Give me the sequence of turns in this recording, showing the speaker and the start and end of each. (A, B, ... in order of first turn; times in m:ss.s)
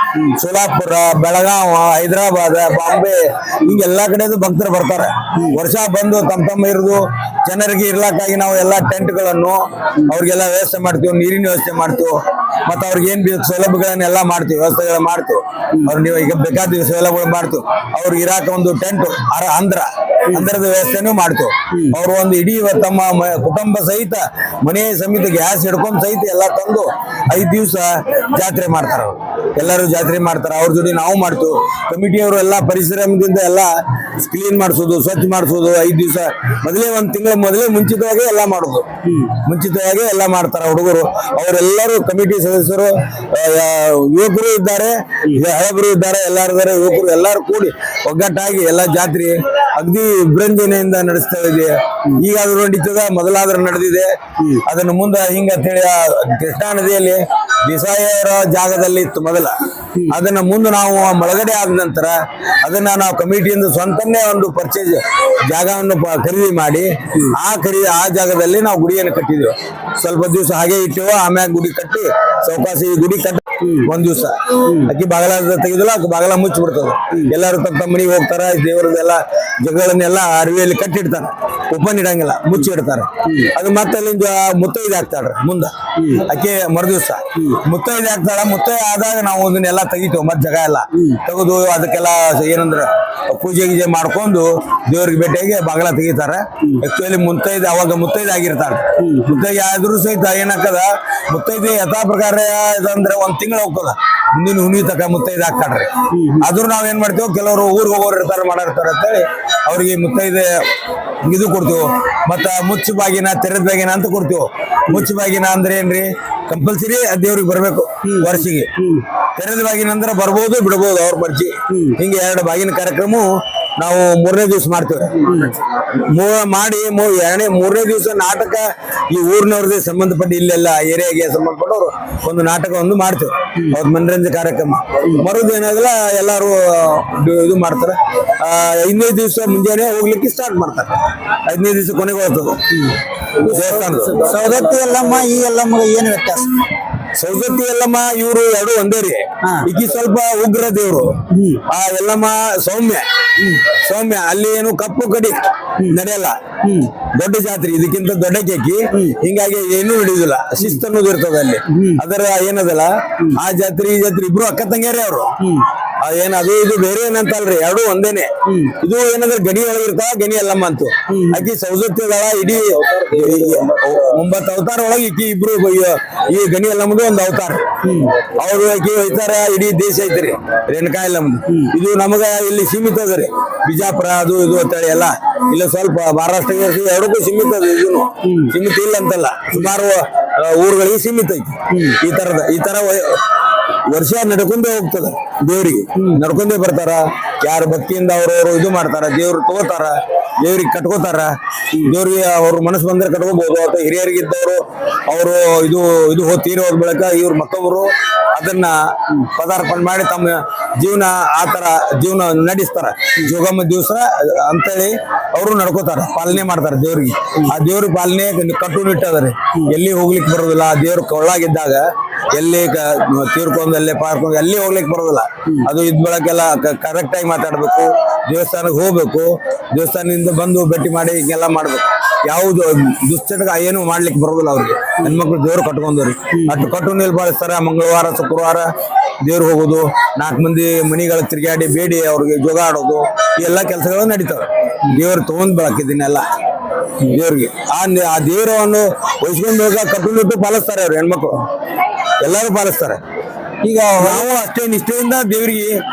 0:00.3-0:54.1 A
0:39.0-0:39.3 B
0:54.6-0:59.5 A
1:00.1-1:50.6 A
1:13.6-1:13.9 B
1:14.6-1:14.9 B
1:23.2-1:23.5 B
1:26.0-1:26.2 B
1:39.0-1:39.4 B
1:46.1-1:46.5 B
1:51.2-1:58.7 A
1:58.0-1:59.0 B
1:59.4-2:05.3 A
2:01.7-2:02.0 B
2:05.2-2:05.6 B
2:06.1-2:22.7 A
2:23.4-2:24.3 A
2:23.8-2:26.5 B
2:27.2-2:31.2 A
2:31.3-2:31.6 B
2:31.7-2:33.0 A
2:33.4-2:33.7 B
2:33.8-2:36.4 A
2:36.6-2:36.9 B
2:37.1-2:45.3 A
2:38.9-2:39.2 B
2:41.7-2:42.0 B
2:45.4-2:45.7 B
2:46.0-2:48.3 A
2:48.5-2:48.8 B
2:48.8-2:57.6 A
2:51.1-2:51.5 B
2:53.2-2:53.6 B
2:57.8-2:58.2 B
2:58.3-3:13.2 A
3:01.5-3:01.7 B
3:08.2-3:08.5 B
3:11.7-3:12.0 B
3:13.9-3:58.7 A
3:16.0-3:16.2 B
3:56.3-3:56.7 B
3:59.2-4:06.2 A
4:07.0-4:11.4 A
4:12.2-4:13.0 A
4:13.6-4:14.2 B
4:14.0-4:15.8 A